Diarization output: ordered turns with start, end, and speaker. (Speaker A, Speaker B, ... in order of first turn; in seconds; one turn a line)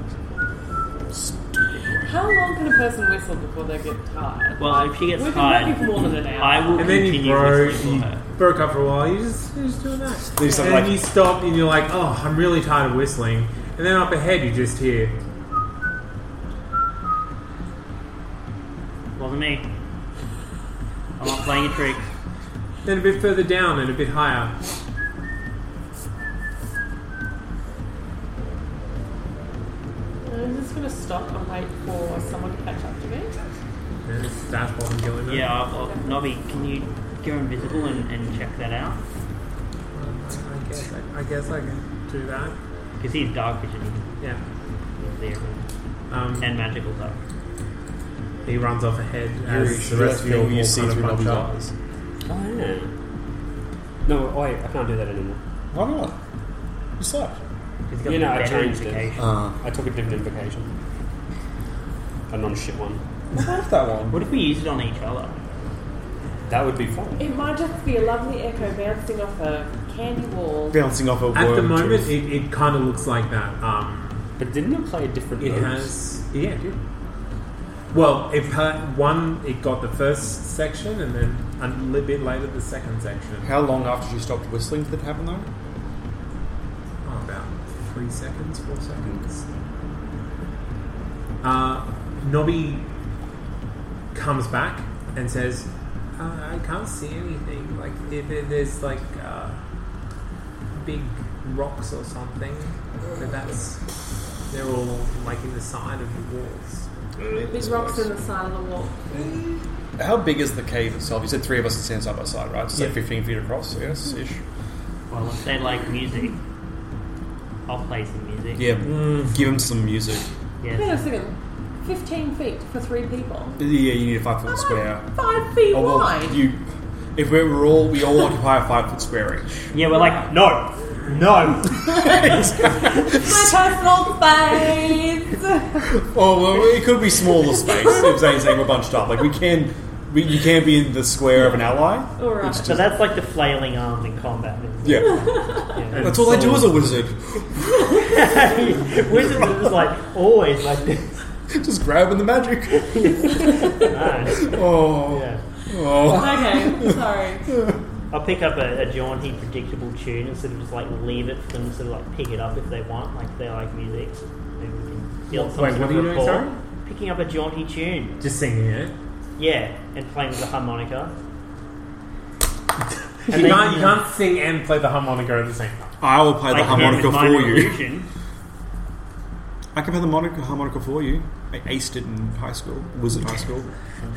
Speaker A: 1.3-2.0
Speaker B: 2.0-7.0
Speaker C: 4.6-8.2
Speaker D: 6.8-15.2
Speaker A: 10.4-11.0
Speaker C: 19.2-19.7
Speaker C: 21.2-22.1
Speaker D: 22.9-24.6
Speaker B: 30.3-33.3
Speaker D: 34.0-35.5
Speaker C: 35.3-39.0
Speaker B: 35.8-36.2
Speaker D: 40.0-42.6
Speaker C: 43.0-44.1
Speaker C: 45.0-45.7
Speaker D: 46.1-46.5
Speaker C: 46.4-47.2
Speaker D: 48.5-51.5
Speaker A: 49.4-51.7
Speaker E: 52.3-52.9
Speaker E: 54.0-55.4
Speaker A: 55.7-56.2
Speaker A: 57.0-57.4
Speaker C: 57.9-59.3
Speaker E: 58.0-60.7
Speaker A: 59.2-59.6
Speaker E: 62.3-63.0
Speaker A: 63.3-64.2
Speaker C: 64.1-65.4
Speaker E: 66.5-67.2
Speaker B: 67.2-70.8
Speaker A: 70.7-72.2
Speaker D: 71.3-74.3
Speaker E: 74.4-75.9
Speaker D: 75.4-76.8
Speaker D: 77.9-83.6
Speaker A: 83.4-85.5
Speaker D: 87.0-89.4
Speaker D: 91.4-92.9
Speaker D: 94.1-99.6
Speaker D: 100.7-103.8
Speaker D: 104.5-106.9
Speaker A: 107.3-108.1
Speaker B: 107.3-109.4
Speaker A: 110.0-114.4
Speaker C: 115.1-116.4
Speaker C: 117.7-118.8
Speaker A: 118.6-120.3
Speaker C: 120.6-121.1
Speaker B: 120.7-123.6
Speaker A: 123.6-125.1
Speaker B: 124.6-126.4
Speaker A: 125.7-129.7
Speaker C: 129.7-132.7
Speaker B: 130.0-130.3
Speaker B: 132.0-136.0
Speaker A: 132.2-132.5
Speaker A: 135.9-142.8
Speaker B: 137.4-138.5
Speaker B: 142.2-142.8
Speaker C: 142.5-146.7
Speaker A: 144.8-145.2
Speaker B: 145.1-145.7
Speaker A: 145.9-147.4
Speaker D: 146.0-146.4
Speaker C: 147.7-151.2
Speaker A: 149.1-149.7
Speaker A: 151.5-153.1
Speaker C: 153.7-155.4
Speaker A: 154.4-156.9
Speaker B: 156.0-157.5
Speaker C: 158.1-168.2
Speaker D: 165.3-166.6
Speaker D: 168.2-168.9
Speaker C: 169.4-171.2
Speaker D: 173.3-176.0
Speaker C: 173.3-173.9
Speaker A: 176.0-177.8
Speaker C: 176.5-178.1
Speaker A: 179.8-183.7